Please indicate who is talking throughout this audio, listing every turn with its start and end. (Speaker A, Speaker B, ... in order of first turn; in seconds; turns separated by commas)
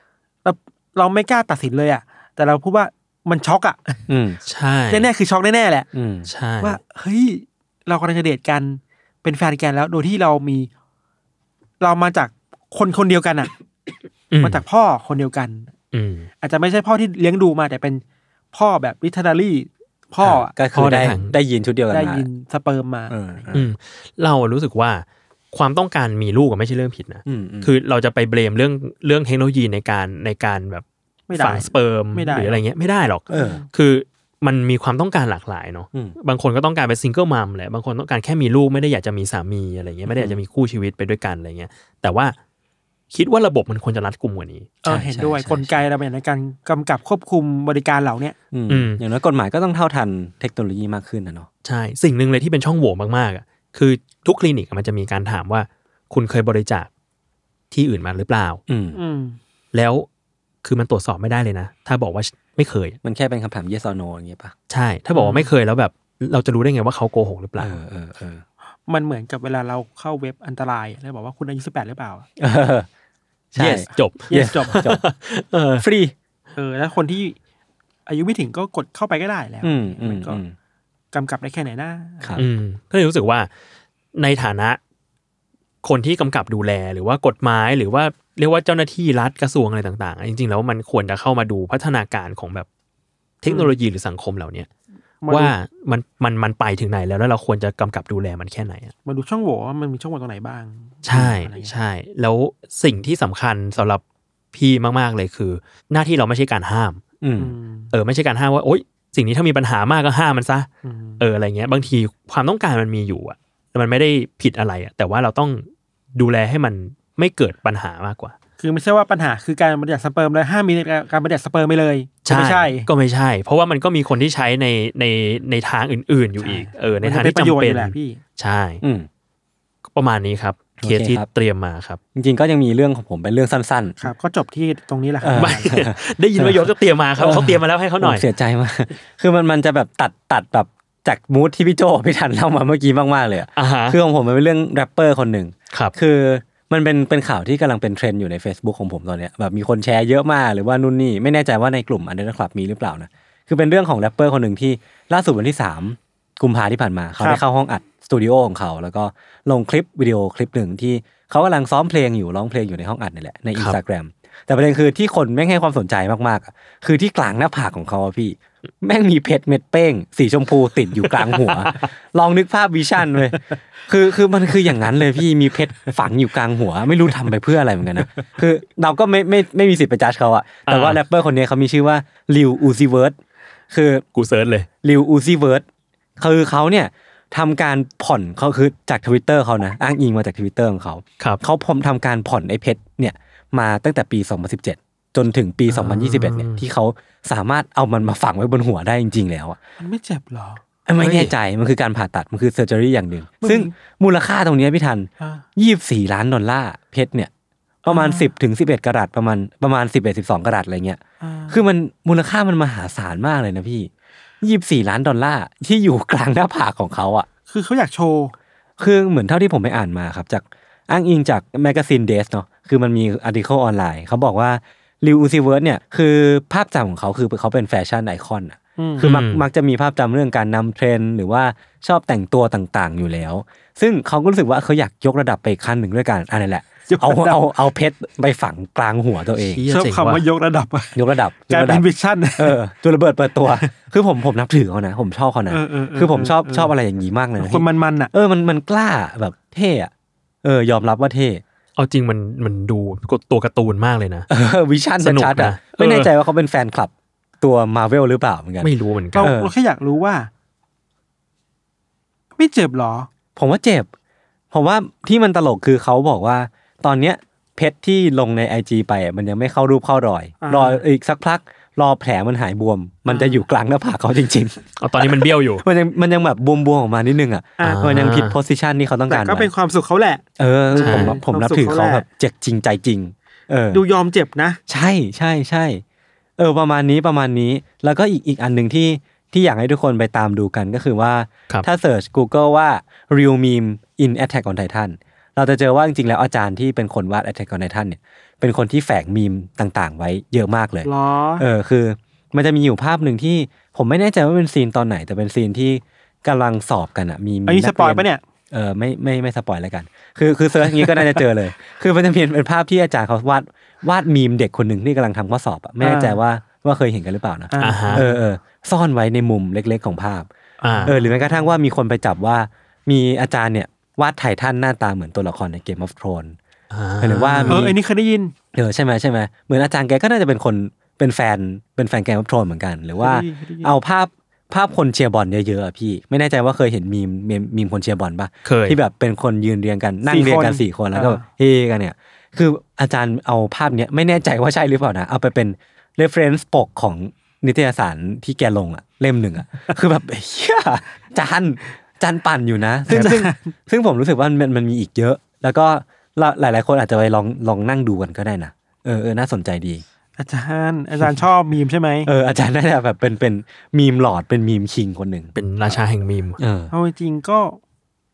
Speaker A: 0.4-4.1, Speaker B: 4.1-4.4, Speaker C: 4.5-5.1, Speaker A: 4.9-5.9, Speaker B: 5.9-6.3, Speaker C: 6.3-6.8, Speaker A: 6.6-10.7, Speaker A: 11.8-13.5, Speaker C: 14.3-14.6, Speaker A: 14.4-15.7, Speaker C: 15.9-16.3, Speaker A: 16.4-20.5, Speaker B: 20.2-22.2, Speaker C: 20.7-21.3, Speaker A: 21.9-23.4, Speaker B: 23.1-23.7, Speaker C: 23.5-42.4, Speaker B: 27.2-27.7, Speaker A: 31.3-32.6, Speaker A: 33.3-33.7, Speaker B: 33.3-33.6, Speaker B: 40.1-40.4, Speaker C: 43.1-44.8, Speaker A: 44.8-48.4, Speaker B: 44.9-45.8, Speaker B: 48.5-51.5, Speaker C: 48.7-49.0, Speaker C: 51.6-56.9, Speaker C: 57.7-58.6, Speaker B: 58.7-59.0, Speaker A: 58.9-59.4, Speaker C: 59.7-60.1, Speaker C: 60.6-63.0, Speaker B: 63.0-64.5, Speaker C: 64.7-67.8, Speaker A: 65.1-65.5, Speaker B: 67.6-68.4, Speaker A: 68.9-72.3, Speaker B: 72.4-72.9, Speaker B: 73.5-75.0, Speaker C: 73.5-75.8, Speaker A: 74.3-74.8, Speaker B: 75.8-76.1, Speaker A: 76.5-77.3, Speaker A: 78.0-80.4, Speaker B: 79.6-80.5, Speaker A: 81.1-82.4, Speaker C: 82.4-83.5, Speaker C: 84.2-84.8, Speaker C: 85.8-92.7, Speaker C: 93.4-94.7, Speaker A: 93.5-93.7, Speaker A: 95.2-95.5, Speaker C: 95.3-98.9, Speaker A: 99.0-101.7, Speaker C: 101.0-104.0, Speaker B: 101.1-101.4, Speaker C: 104.5-107.0, Speaker B: 107.2-107.5, Speaker A: 107.4-107.9, Speaker C: 107.9-110.7, Speaker A: 110.8-111.2, Speaker C: 111.2-118.3, Speaker A: 118.6-122.9, Speaker C: 122.2-128.8, Speaker A: 126.4-128.2, Speaker B: 128.8-129.1, Speaker C: 129.9-132.0, Speaker B: 130.8-131.2, Speaker B: 132.1-134.0, Speaker A: 134.0-135.7, Speaker B: 135.2-183.2, Speaker C: 135.3-138.2, Speaker C: 143.5-144.0, Speaker C: 171.3-171.8, Speaker C: 180.7-181.0, Speaker B: 183.7-184.0, Speaker C: 184.1-184.7, Speaker B: 184.8-185.6, Speaker B: 186.2-199.6, Speaker C: 195.7-196.6, Speaker A: 199.8-201.3, Speaker B: 200.9-207.3, Speaker A: 203.4-203.7, Speaker A: 205.2-205.4, Speaker B: 207.8-213.9, Speaker A: 207.8-208.3, Speaker A: 211.2-211.6, Speaker B: 214.4-217.3, Speaker A: 217.5-218.3, Speaker B: 218.8-239.6, Speaker A: 228.8-229.0, Speaker C: 229.0-229.4, Speaker A: 236.9-237.4, Speaker C: 239.4-240.2, Speaker A: 239.7-242.6, Speaker B: 240.9-241.8, Speaker B: 242.4-249.9, Speaker A: 245.5-246.7, Speaker A: 247.4-248.1, Speaker B: 250.4-251.4, Speaker C: 251.8-254.3, Speaker B: 254.3-259.5, Speaker C: 255.0-256.1, Speaker C: 258.6-259.3, Speaker A: 259.1-260.3, Speaker A: 262.4-263.1, Speaker B: 263.4-263.9, Speaker B: 264.5-279.5, Speaker A: 270.4-270.8, Speaker A: 273.1-273.4, Speaker C: 274.8-275.6, Speaker A: 277.6-277.9, Speaker C: 277.6-278.4, Speaker A: 279.1-282.0, Speaker B: 280.4-283.8, Speaker C: 280.8-281.2, Speaker A: 283.7-284.6, Speaker B: 284.7-285.8, Speaker B: 286.4-320.3, Speaker A: 300.8-301.4, Speaker A: 307.4-308.2, Speaker A: 315.8-316.2, Speaker A: 317.5-318.2, Speaker C: 317.6-318.0, Speaker C: 320.6-320.9, Speaker A: 320.7-321.5, Speaker B: 320.8-326.4, Speaker C: 326.7-327.7, Speaker B: 327.0-327.8, Speaker A: 327.4-328.3, Speaker B: 328.5-359.8, Speaker A: 333.0-333.7, Speaker C: 338.4-338.8, Speaker A: 340.1-341.2, Speaker A: 352.9-353.5, Speaker A: 360.2-362.1, Speaker B: 362.0-365.8, Speaker C: 365.3-366.4, Speaker B: 366.4-366.7, Speaker A: 366.7-367.6